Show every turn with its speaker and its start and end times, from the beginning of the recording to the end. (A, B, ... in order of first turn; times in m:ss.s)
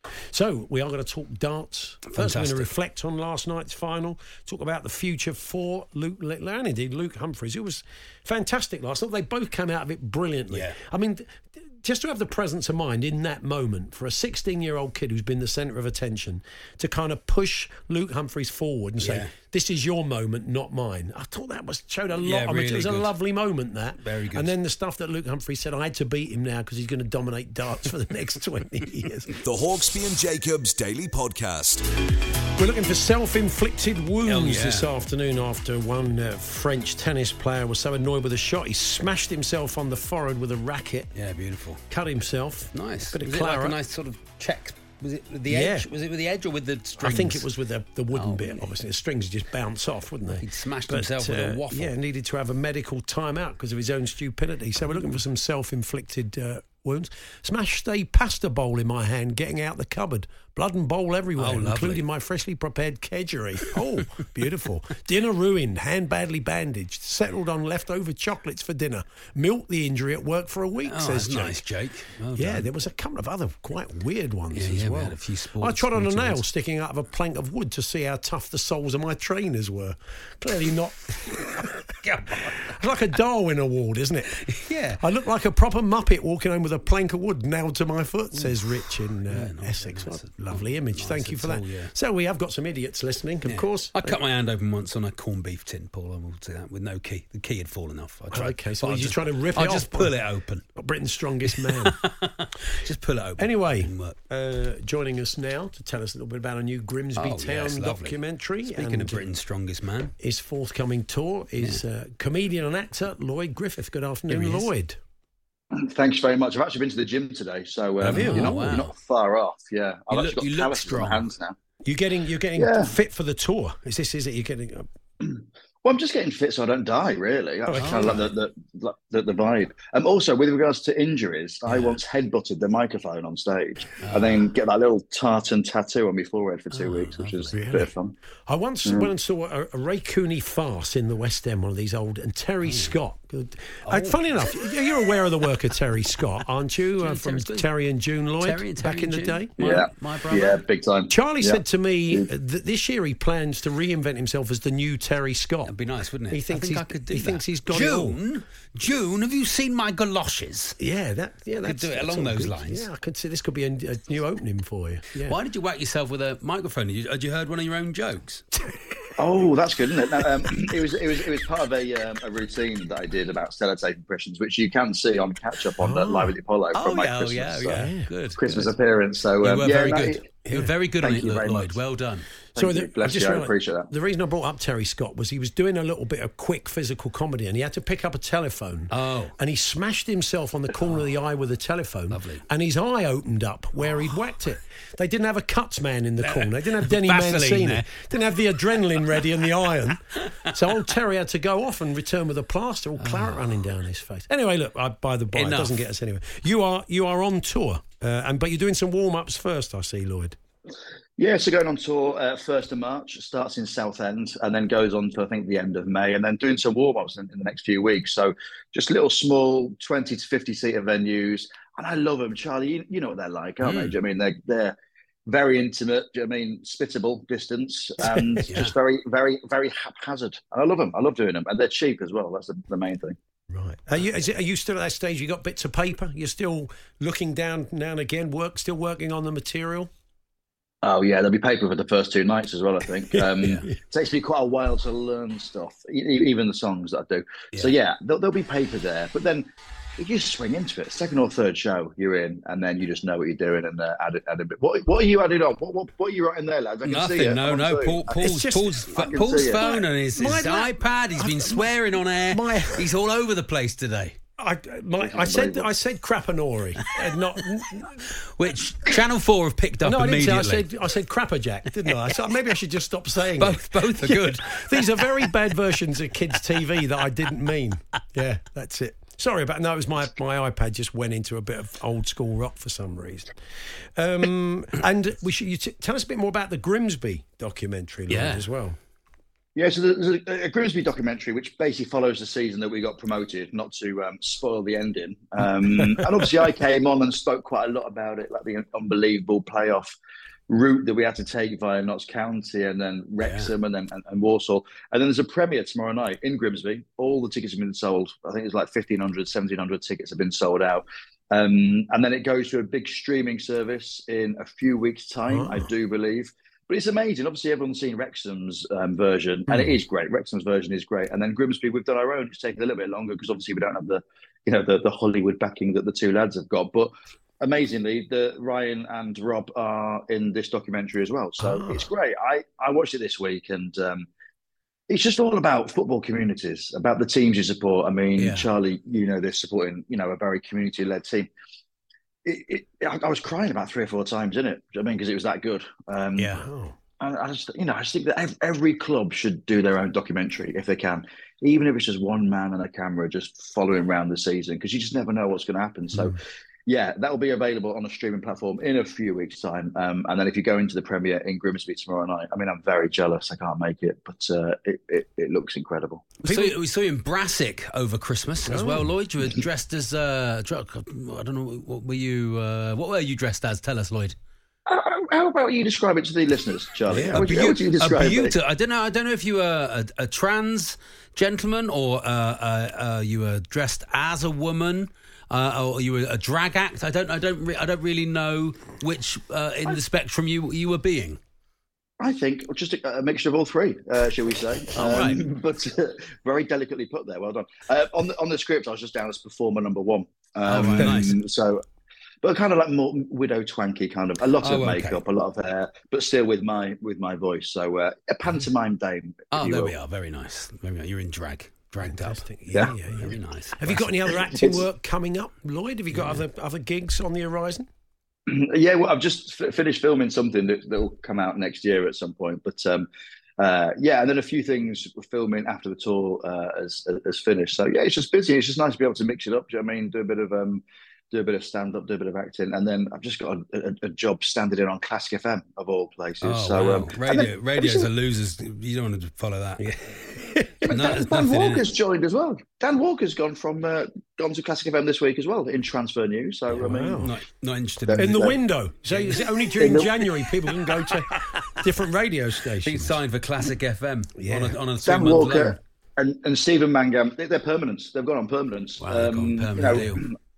0:00.3-0:29.3 A
0:02.1-0:02.7 B
0:10.5-0:10.8 B
0:19.0-0:19.3 B
0:22.2-0:23.1 B
0:24.0-0:24.5 B
0:29.4-0:31.8 C
0:32.6-0:41.1 A
0:34.2-0:34.9 B
0:41.1-0:41.8 B
0:41.9-0:43.8 A
0:42.7-0:47.5 B
0:45.5-0:45.9 A
0:47.0-1:11.6 A
0:48.1-0:48.7 B
0:50.4-0:51.9 B
1:01.4-1:02.0 B
1:10.8-1:12.7 B
1:12.3-1:24.4 A
1:14.5-1:16.4 B
1:22.0-1:22.6 B
1:24.4-1:25.0 B
1:25.0-1:34.2 A
1:29.3-1:31.9 B
1:33.4-1:40.6 B
1:38.3-1:40.1 A
1:40.7-1:42.0 A
1:41.4-1:44.2 B
1:43.4-1:49.2 A
1:47.2-1:50.1 B
1:50.2-1:55.0 A
1:54.3-1:54.7 B
1:55.7-2:01.6 D
1:58.0-1:58.8 A
1:58.0-1:58.9 B
2:00.1-2:01.2 B
2:01.8-2:04.9 A
2:02.6-2:02.9 D
2:05.2-2:18.1 D
2:07.7-2:08.2 A
2:07.8-2:08.3 B
2:11.7-2:12.0 B
2:14.0-2:14.5 B
2:16.7-2:17.6 B
2:17.5-2:17.9 A
2:18.5-2:29.9 A
2:22.6-2:23.0 B
2:23.8-2:24.2 B
2:27.0-2:27.7 B
2:28.4-2:30.6 B
2:29.6-2:32.3 D
2:31.1-2:35.7 A
2:35.6-2:40.8 B
2:36.3-2:38.2 A
2:40.8-2:45.4 A
2:41.6-2:42.8 B
2:45.2-2:48.4 B
2:48.6-2:49.1 A
2:49.2-2:57.8 D
2:55.8-2:56.4 A
2:56.7-2:58.7 B
2:57.7-2:58.1 A
2:58.4-3:00.2 D
2:59.4-3:02.3 B
3:00.4-3:00.7 A
3:01.0-3:01.8 D
3:02.6-3:03.9 D
3:02.6-3:30.4 A
3:08.9-3:09.3 B
3:12.1-3:12.4 B
3:16.2-3:18.0 B
3:23.0-3:23.5 B
3:25.3-3:25.8 B
3:31.2-3:53.2 D
3:43.6-3:44.0 B
3:48.5-3:48.7 B
3:53.5-3:59.9 A
4:00.8-4:18.2 D
4:03.1-4:03.7 A
4:16.8-4:24.1 B
4:18.1-4:18.8 A
4:18.9-4:19.8 D
4:19.6-4:22.9 A
4:24.4-4:28.0 A
4:25.0-4:25.7 D
4:28.4-4:30.6 B
4:29.8-4:43.3 A
4:33.3-4:35.3 B
4:44.0-4:48.8 A
4:48.1-4:48.4 B
4:49.5-5:00.0 D
5:00.5-5:34.1 D
5:03.2-5:03.5 B
5:15.3-5:15.7 A
5:19.5-5:19.8 A
5:31.4-5:31.9 A
5:34.9-5:41.3 D
5:38.2-5:38.5 B
5:42.2-5:46.4 D
5:46.2-5:46.8 A
5:47.0-6:06.2 D
5:55.9-5:56.2 A
6:06.2-6:06.5 A
6:06.2-6:14.1 B
6:08.4-6:08.9 A
6:14.7-6:18.3 D
6:16.9-6:17.3 A
6:17.1-6:31.2 B
6:32.0-6:41.6 D
6:34.7-6:35.2 B
6:40.4-6:41.2 B
6:40.6-6:41.0 A
6:42.2-6:49.7 D
6:44.4-6:45.0 B
6:49.3-6:54.0 B
6:51.8-6:57.7 A
6:54.3-6:54.6 D
6:55.9-6:56.2 B
6:58.3-7:02.9 D
7:03.4-7:17.9 D
7:16.2-7:19.6 B
7:19.6-7:20.6 A
7:20.6-7:27.0 D
7:20.7-7:21.7 B
7:26.5-7:27.1 A
7:26.6-7:29.5 B
7:27.9-7:28.4 D
7:27.9-7:33.0 A
7:29.6-7:30.0 D
7:31.1-7:31.6 B
7:32.6-7:35.6 B
7:34.2-7:34.6 A
7:34.8-7:40.1 D
7:38.8-7:40.0 B